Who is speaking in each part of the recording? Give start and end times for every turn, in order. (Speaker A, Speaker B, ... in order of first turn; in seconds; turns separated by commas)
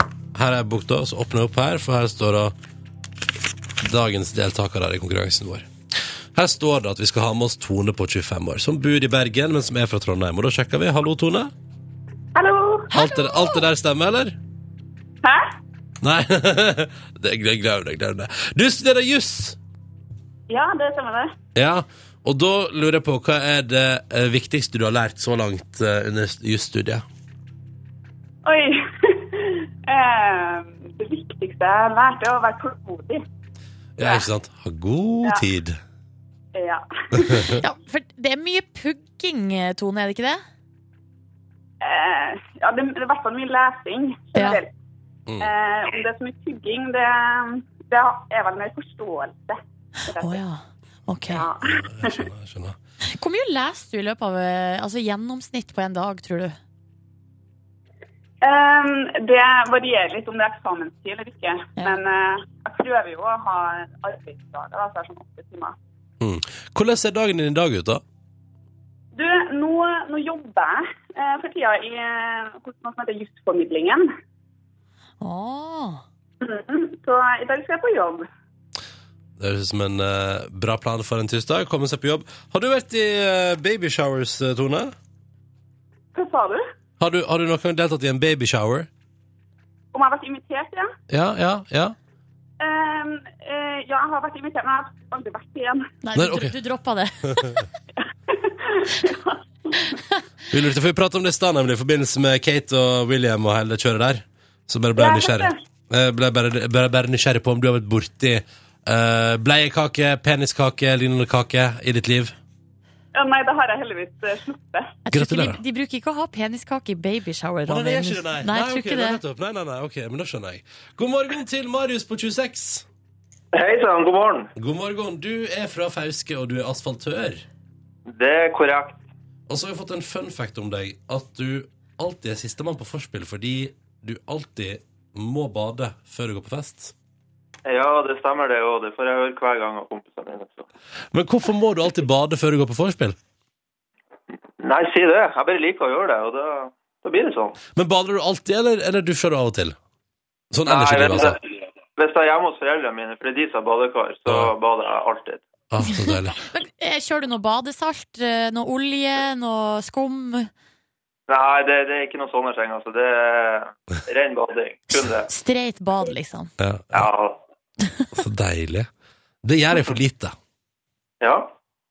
Speaker A: 0.3-2.5, Speaker A: 3.8-5.7, Speaker A: 6.3-11.5, Speaker B: 12.3-12.9, Speaker A: 12.9-14.4, Speaker C: 12.9-13.6, Speaker B: 15.2-15.5, Speaker A: 16.0-19.6, Speaker B: 20.5-21.3, Speaker A: 21.5-27.0, Speaker B: 28.4-33.2, Speaker A: 34.0-35.8, Speaker B: 36.5-37.5, Speaker A: 37.1-37.6, Speaker C: 37.6-40.4, Speaker B: 41.8-44.7, Speaker C: 44.3-44.6, Speaker B: 45.4-50.4, Speaker C: 50.1-51.4, Speaker B: 51.3-52.2, Speaker A: 51.7-52.8, Speaker C: 53.1-56.6, Speaker B: 58.4-65.8, Speaker A: 66.2-68.0, Speaker B: 69.1-74.1, Speaker C: 75.2-76.0, Speaker B: 76.4-78.3, Speaker A: 79.4-84.9, Speaker B: 86.1-86.6, Speaker A: 87.0-88.9, Speaker B: 89.9-90.9, Speaker A: 91.1-92.0, Speaker B: 92.6-95.9, Speaker C: 96.0-97.6, Speaker A: 96.2-96.5, Speaker A: 97.3-97.6, Speaker B: 98.3-99.4, Speaker A: 100.5-112.3, Speaker B: 105.0-105.5, Speaker B: 113.1-115.0, Speaker C: 115.0-119.2, Speaker A: 115.1-115.6, Speaker A: 117.7-122.8, Speaker D: 123.5-124.5, Speaker A: 124.5-127.4, Speaker D: 128.1-129.0, Speaker A: 129.5-136.9, Speaker D: 137.7-140.7, Speaker A: 141.1-143.2, Speaker D: 144.6-147.6, Speaker A: 147.7-149.8, Speaker A: 150.5-151.4, Speaker D: 150.7-155.4, Speaker A: 154.3-154.5, Speaker A: 155.7-156.4, Speaker C: 155.9-160.5, Speaker D: 161.3-165.3, Speaker C: 165.3-166.5, Speaker A: 166.6-167.1, Speaker D: 166.9-167.4, Speaker A: 168.1-168.9, Speaker A: 169.4-170.3, Speaker D: 171.2-171.5